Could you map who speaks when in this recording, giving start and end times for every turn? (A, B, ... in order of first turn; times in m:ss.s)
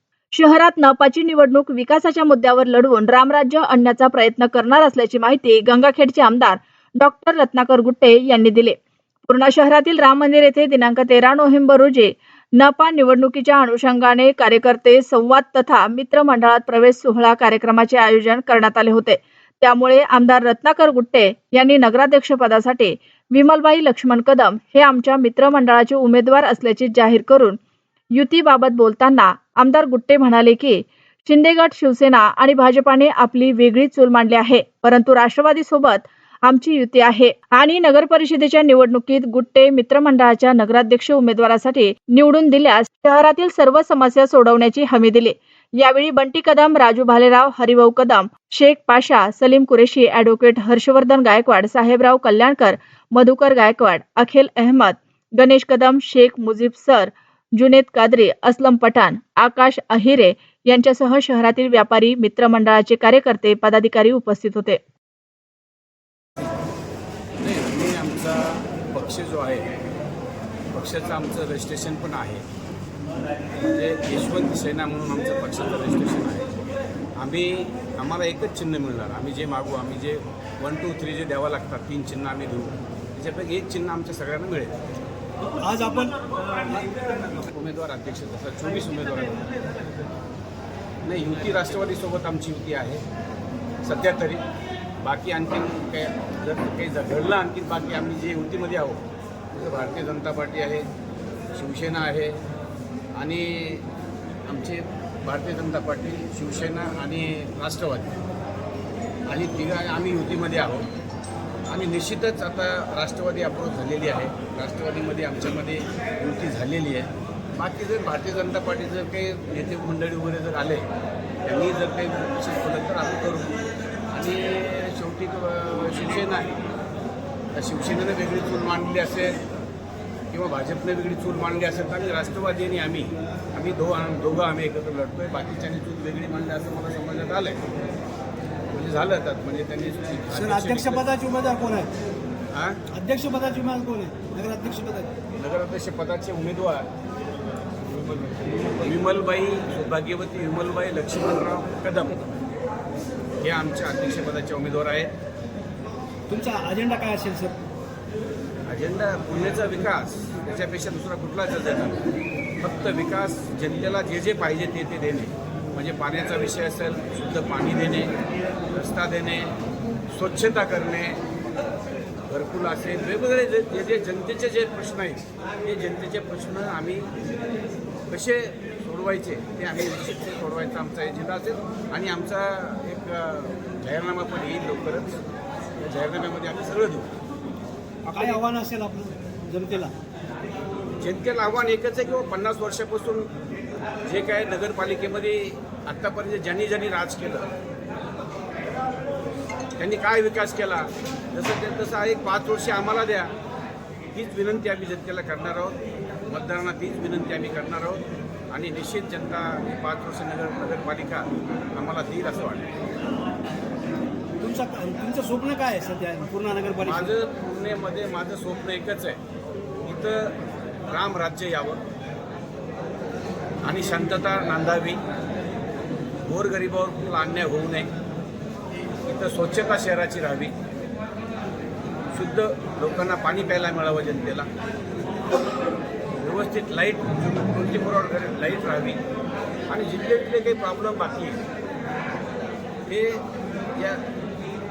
0:00.3-0:27.6 A
0:28.1-1:04.8 A
1:07.4-1:09.7 B
1:10.7-1:12.4 B
1:13.6-1:16.6 B
1:17.2-1:24.8 B
1:25.6-1:26.2 C
1:27.2-1:29.5 B
1:31.0-1:33.0 B
1:33.8-1:34.4 B
1:35.0-1:40.9 B
1:41.5-1:42.4 B
1:43.2-1:43.9 B
1:44.5-1:48.2 B
1:49.3-1:50.9 B
1:51.7-2:00.9 B
2:01.4-2:06.5 B
2:07.5-2:09.4 B
2:10.3-2:17.6 B
2:18.7-2:21.0 B
2:20.3-2:21.9 C
2:22.5-2:22.8 B
2:22.9-2:25.1 C
2:25.3-2:26.9 B
2:28.8-2:32.3 B
2:33.4-2:35.2 B
2:36.3-2:37.6 C
2:38.7-2:42.0 B
2:42.6-2:48.1 B
2:48.7-2:49.6 B
2:50.1-2:51.2 B
2:52.3-2:57.1 B
2:58.1-3:05.2 B
3:05.8-3:07.1 B
3:08.0-3:09.9 C
3:11.0-3:13.3 B
3:14.0-3:17.5 B
3:19.8-3:23.3 B
3:24.1-3:32.7 B
3:34.4-3:37.1 C
3:36.8-3:39.2 B
3:39.8-3:40.4 B
3:40.9-3:41.8 B
3:43.6-3:45.0 B
3:46.2-3:47.9 B
3:49.0-3:50.5 B
3:52.1-3:54.5 B
3:56.2-3:59.0 B
3:59.7-4:01.4 B
4:02.9-4:03.2 B
4:03.8-4:04.0 B